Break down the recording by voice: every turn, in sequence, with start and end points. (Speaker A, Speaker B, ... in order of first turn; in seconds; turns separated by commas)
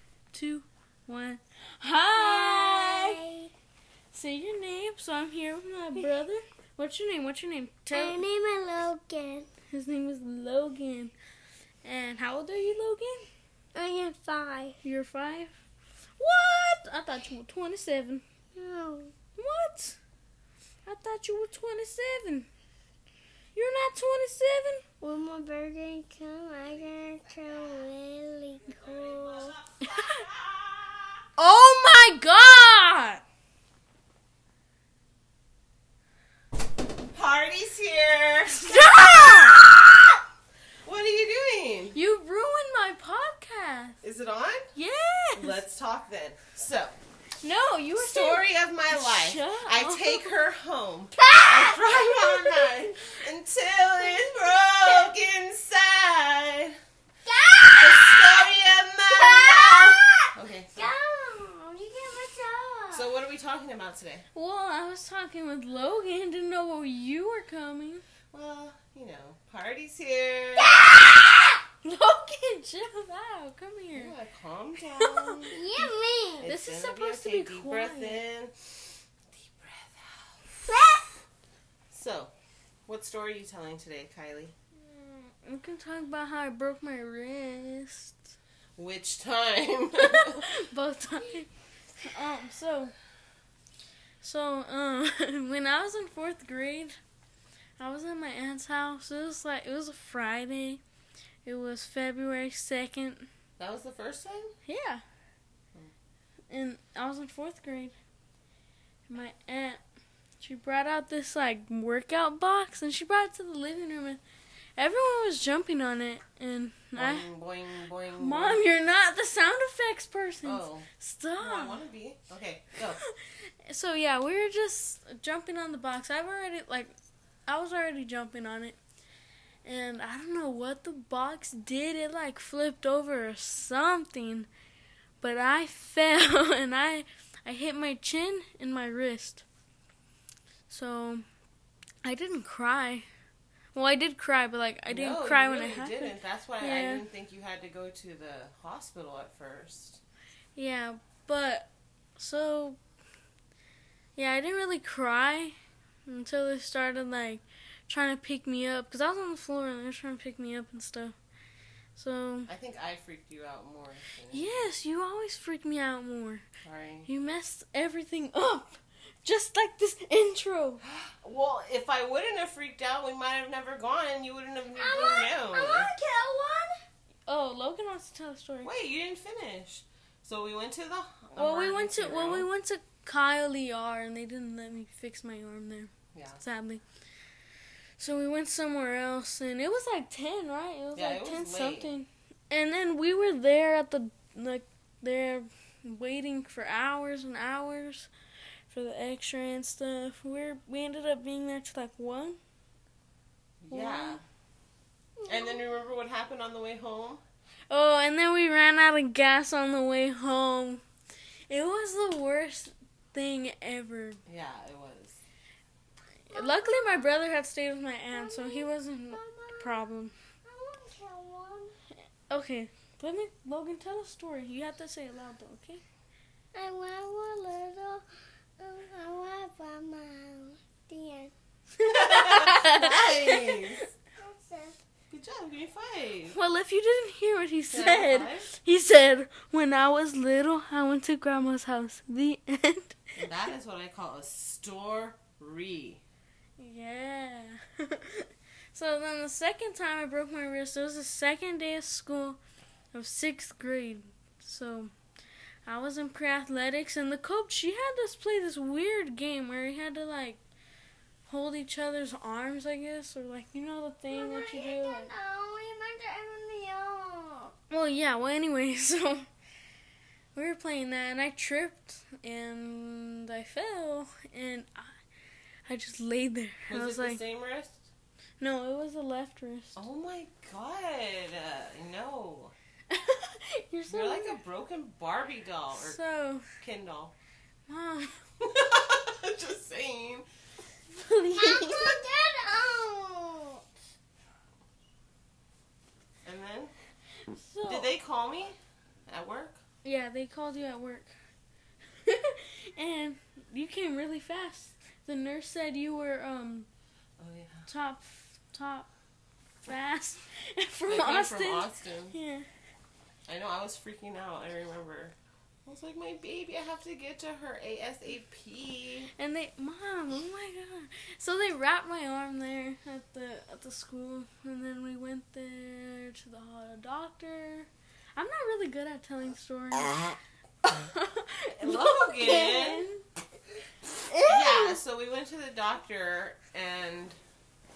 Speaker A: 0.3-3.2, Speaker B: 2.2-3.5, Speaker A: 4.1-8.2, Speaker B: 7.9-9.5, Speaker A: 9.7-11.1, Speaker A: 11.8-13.2, Speaker B: 13.7-14.8, Speaker A: 14.8-15.5, Speaker A: 16.2-18.2, Speaker B: 18.5-19.1, Speaker A: 19.4-20.0, Speaker A: 20.8-22.5, Speaker A: 23.5-24.8, Speaker B: 25.0-29.6, Speaker C: 28.7-31.2, Speaker A: 31.4-33.2, Speaker C: 37.1-39.8, Speaker A: 38.5-39.7, Speaker C: 40.8-42.0, Speaker A: 41.9-44.0, Speaker C: 44.0-44.7, Speaker A: 44.7-45.6, Speaker C: 45.4-47.0, Speaker A: 47.4-50.3, Speaker C: 48.0-56.8, Speaker B: 51.2-52.9, Speaker B: 54.1-55.1, Speaker B: 57.2-58.5, Speaker C: 57.8-60.9, Speaker B: 59.1-63.1, Speaker C: 62.9-64.2, Speaker A: 64.3-68.0, Speaker C: 68.3-70.8, Speaker B: 70.6-71.4, Speaker A: 71.8-74.1, Speaker C: 73.9-75.6, Speaker A: 75.1-75.9, Speaker B: 75.5-76.5, Speaker C: 76.4-78.5, Speaker A: 76.4-78.2, Speaker C: 79.3-80.7, Speaker B: 80.7-81.1, Speaker C: 81.9-82.3, Speaker C: 82.9-84.5, Speaker A: 84.8-88.2, Speaker C: 88.8-90.5, Speaker A: 90.1-92.9, Speaker A: 94.2-97.0, Speaker A: 97.8-100.8, Speaker A: 101.4-103.3, Speaker C: 103.6-104.5, Speaker A: 104.7-105.0, Speaker A: 106.5-107.9, Speaker A: 109.1-109.8, Speaker A: 110.4-114.2, Speaker A: 114.8-117.3, Speaker C: 117.0-118.6, Speaker A: 118.2-121.8, Speaker C: 120.4-123.0, Speaker A: 123.0-126.9, Speaker A: 127.5-128.8, Speaker A: 129.6-134.5, Speaker A: 135.2-139.4, Speaker A: 140.7-141.2, Speaker A: 142.0-143.1, Speaker A: 143.7-147.0, Speaker C: 144.9-150.0, Speaker A: 150.5-152.8, Speaker A: 154.2-155.5, Speaker A: 156.1-161.1, Speaker A: 161.9-162.5, Speaker C: 162.5-164.7, Speaker A: 164.3-166.4, Speaker C: 166.6-167.1, Speaker A: 167.1-170.8, Speaker C: 170.8-175.9, Speaker B: 174.8-176.8, Speaker A: 177.3-178.7, Speaker C: 178.6-182.5, Speaker A: 181.3-186.8, Speaker C: 186.1-186.4, Speaker A: 188.0-198.1, Speaker C: 190.9-192.0, Speaker A: 198.7-202.4, Speaker C: 203.6-204.2, Speaker A: 203.7-204.2, Speaker B: 205.2-205.7, Speaker C: 205.3-207.2, Speaker A: 207.7-210.8, Speaker A: 211.5-214.2, Speaker C: 214.2-215.2, Speaker A: 216.3-220.1, Speaker B: 216.3-217.2, Speaker B: 218.1-219.8, Speaker B: 220.4-221.8, Speaker A: 222.3-225.8, Speaker B: 226.5-228.0, Speaker B: 228.6-231.3, Speaker A: 231.8-233.6, Speaker C: 231.9-233.9, Speaker B: 234.2-234.8, Speaker C: 235.1-236.4, Speaker A: 236.3-242.9, Speaker C: 237.7-238.5, Speaker C: 243.2-246.0, Speaker A: 246.6-252.4, Speaker A: 252.9-254.9, Speaker A: 255.7-260.4, Speaker A: 261.3-265.1, Speaker B: 264.1-267.5, Speaker A: 267.7-269.3, Speaker A: 270.3-274.9, Speaker A: 275.7-277.2, Speaker C: 276.7-277.9, Speaker A: 278.4-279.8, Speaker C: 279.7-282.5, Speaker A: 282.9-284.4, Speaker C: 283.9-286.0, Speaker A: 285.7-286.4, Speaker C: 286.6-287.1, Speaker A: 287.7-288.2, Speaker C: 288.4-290.2, Speaker A: 290.9-291.9, Speaker B: 291.4-293.6, Speaker C: 296.2-296.7, Speaker A: 297.3-297.9, Speaker C: 297.7-299.6, Speaker A: 299.8-301.1, Speaker A: 302.0-306.7, Speaker C: 307.2-307.7, Speaker A: 307.6-308.9, Speaker A: 309.6-312.5, Speaker C: 310.9-312.1, Speaker C: 313.3-315.1, Speaker C: 315.6-319.1, Speaker A: 319.1-333.0, Speaker C: 331.6-332.9, Speaker A: 334.1-334.8, Speaker C: 334.3-337.2